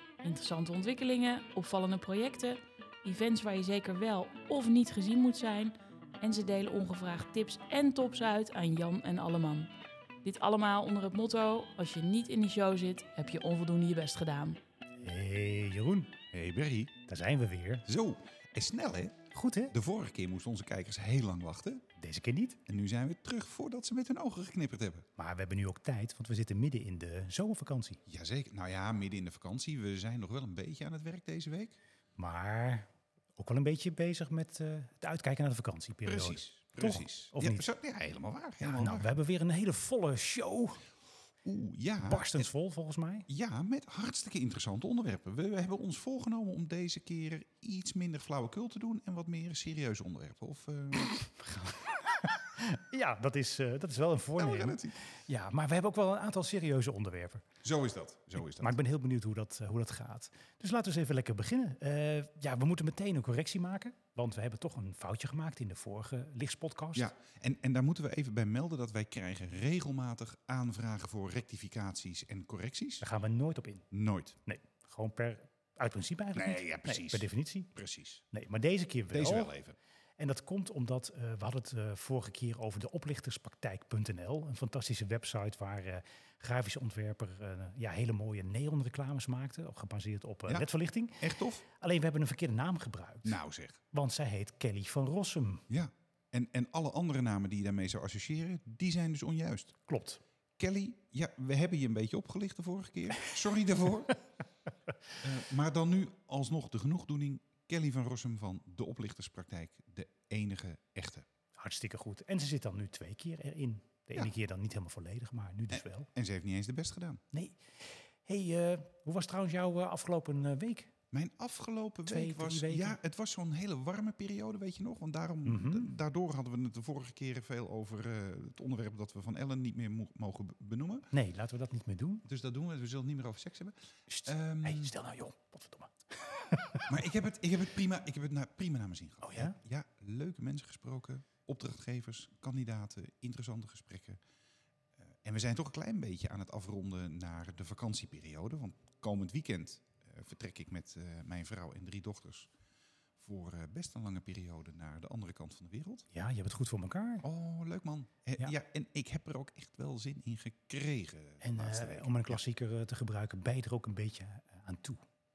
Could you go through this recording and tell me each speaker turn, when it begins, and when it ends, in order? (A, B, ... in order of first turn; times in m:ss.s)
0:00.2-0:09.7 A
0:10.2-0:14.6 A
0:15.0-0:16.1 B
0:16.3-0:16.9 C
0:17.1-0:17.9 B
0:17.8-0:19.2 C
0:19.3-0:19.7 B
0:19.7-0:21.8 C
0:22.0-0:22.6 B
0:22.6-0:25.1 C
0:25.2-0:28.0 B
0:28.1-0:31.8 C
0:32.2-0:37.7 B
0:36.0-0:39.1 C
0:38.6-0:40.8 B
0:41.4-0:42.5 C
0:42.0-0:43.3 B
0:43.3-0:51.1 C
0:51.1-0:57.5 B
0:54.4-0:55.0 C
0:57.6-0:58.8 C
0:58.4-1:07.1 B
1:06.9-1:13.0 C
1:13.0-1:13.9 B
1:13.9-1:14.4 C
1:14.4-1:17.7 B
1:16.3-1:18.2 C
1:18.3-1:19.5 B
1:19.1-1:19.8 C
1:20.2-1:33.4 B
1:30.4-1:31.6 C
1:33.2-1:33.8 C
1:33.9-1:35.6 B
1:35.7-1:39.8 C
1:39.9-1:40.2 B
1:40.6-1:44.2 C
1:45.2-1:51.2 C
1:51.6-1:56.1 B
1:55.7-1:57.2 C
1:57.3-2:00.9 B
2:01.1-2:11.1 C
2:02.1-2:03.0 B
2:05.4-2:05.9 B
2:11.1-2:12.2 B
2:12.2-2:14.9 C
2:14.1-2:17.0 B
2:16.9-2:24.2 C
2:19.2-2:19.6 B
2:25.0-2:32.5 C
2:33.2-2:36.0 C
2:36.1-2:37.2 B
2:37.2-2:42.4 C
2:41.4-2:45.0 B